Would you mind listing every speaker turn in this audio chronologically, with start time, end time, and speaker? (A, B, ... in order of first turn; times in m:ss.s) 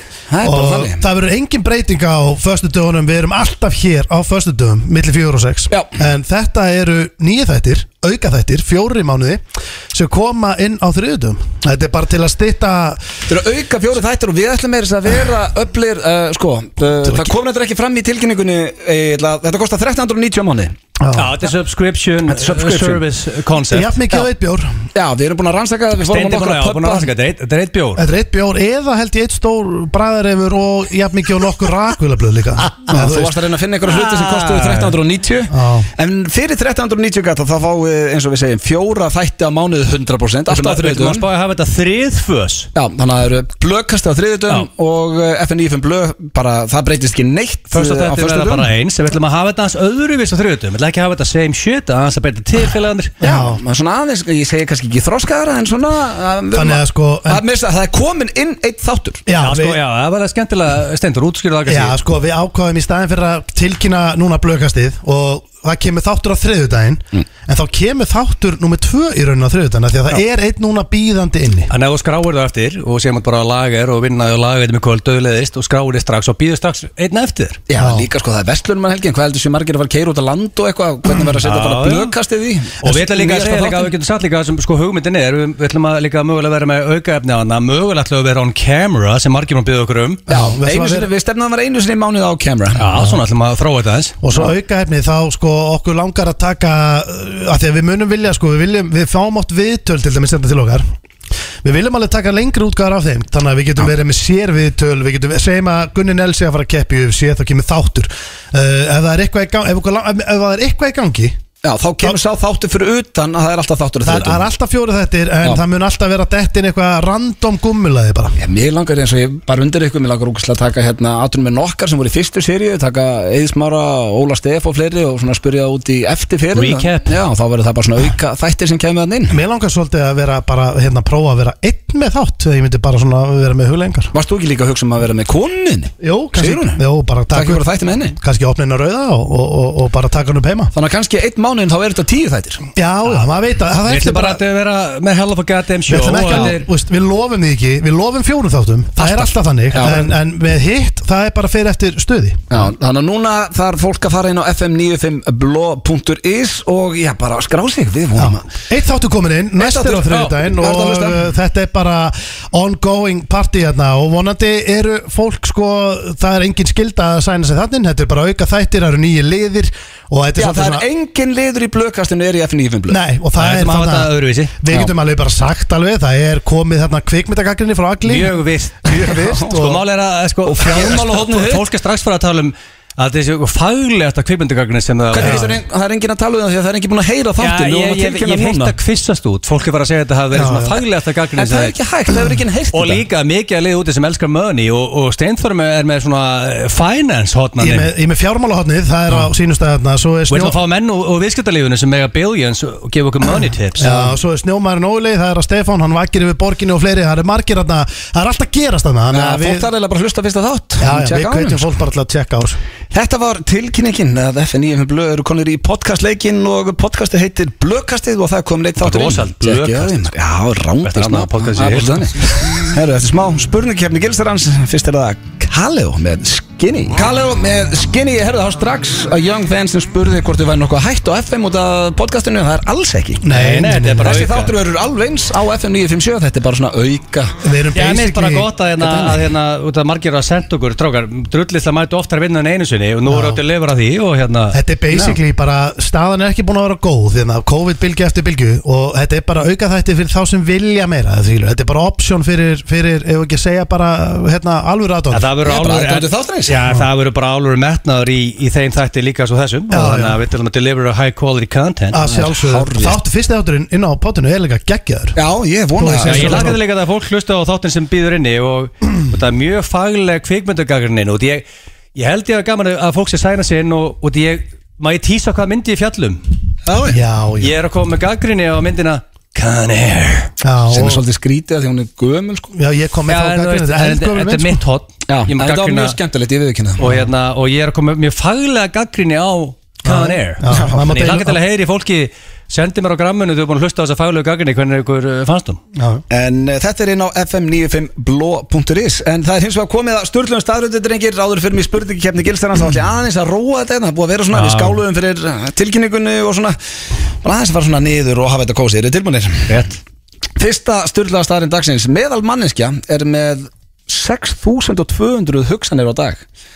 0:00.3-0:01.0 A
0:00.4-0:13.0 B
0:13.3-0:20.8 A
0:21.0-0:21.4 B
0:21.1-0:24.0 C
0:22.3-0:23.0 A
0:23.7-0:24.8 B
0:24.9-0:27.1 A
0:26.0-0:28.0 C
0:28.0-0:33.4 B
0:32.9-0:41.3 A
0:33.9-0:35.0 C
0:35.5-0:35.9 B
0:40.5-0:42.7 C
0:42.8-0:48.7 A
0:47.7-0:53.1 C
0:53.2-0:53.6 B
0:53.2-0:59.2 A
0:56.5-0:57.4 B
0:59.3-0:59.8 B
0:59.4-1:02.0 C
1:01.7-1:11.7 B
1:11.7-1:17.6 C
1:17.7-1:23.9 A
1:17.8-1:18.1 B
1:21.4-1:22.2 C
1:22.8-1:30.2 C
1:30.3-1:31.1 B
1:30.3-1:32.8 A
1:32.8-1:34.2 C
1:34.2-1:40.8 B
1:41.6-1:51.4 B
1:51.6-1:54.5 A
1:54.0-1:58.4 B
1:58.4-2:09.4 A
2:06.5-2:07.1 C
2:09.3-2:14.1 B
2:14.1-2:18.2 A
2:16.0-2:20.7 B
2:20.7-2:22.7 A
2:22.8-2:24.4 B
2:23.9-2:26.7 C
2:25.9-2:32.6 B
2:29.0-2:30.1 A
2:32.5-2:38.5 A
2:38.2-2:50.9 B
2:39.6-2:41.3 A
2:50.4-2:53.0 A
2:52.9-2:59.8 B
2:53.4-2:54.6 C
2:58.0-3:05.5 C
2:59.0-2:59.8 A
3:00.5-3:01.6 A
3:05.1-3:08.8 A
3:05.2-3:05.6 B
3:07.4-3:11.8 C
3:10.3-3:10.8 B
3:11.4-3:13.0 A
3:12.7-3:17.9 C
3:17.6-3:20.6 B
3:20.3-3:24.1 C
3:23.8-3:29.7 B
3:29.1-3:31.7 A
3:30.8-3:32.6 B
3:32.9-3:53.2 A
3:38.8-3:40.1 C
3:40.8-3:42.2 C
3:53.2-3:54.3 B
3:53.3-3:54.6 C
3:54.0-3:57.4 A
3:57.4-3:58.5 B
3:57.8-4:04.6 C
3:58.8-3:59.2 A
4:03.1-4:03.4 B
4:04.5-4:15.3 B
4:15.1-4:22.0 C
4:15.4-4:16.6 A
4:19.7-4:20.2 B
4:21.9-4:25.2 B
4:22.0-4:23.0 A
4:25.2-4:26.6 A
4:25.8-4:26.6 B
4:26.0-4:36.2 C
4:36.7-4:37.0 A
4:36.9-4:37.6 B
4:37.4-4:40.3 C
4:40.4-4:41.0 B
4:40.7-4:42.6 A
4:42.5-4:44.6 B
4:43.1-4:46.0 C
4:45.1-4:46.9 A
4:46.8-4:55.6 C
4:49.8-4:51.4 B
4:50.5-4:51.2 A
4:55.8-4:56.0 B
4:56.1-5:06.6 A
5:04.3-5:04.8 C
5:07.2-5:09.6 A
5:09.5-5:09.8 C
5:10.4-5:16.2 A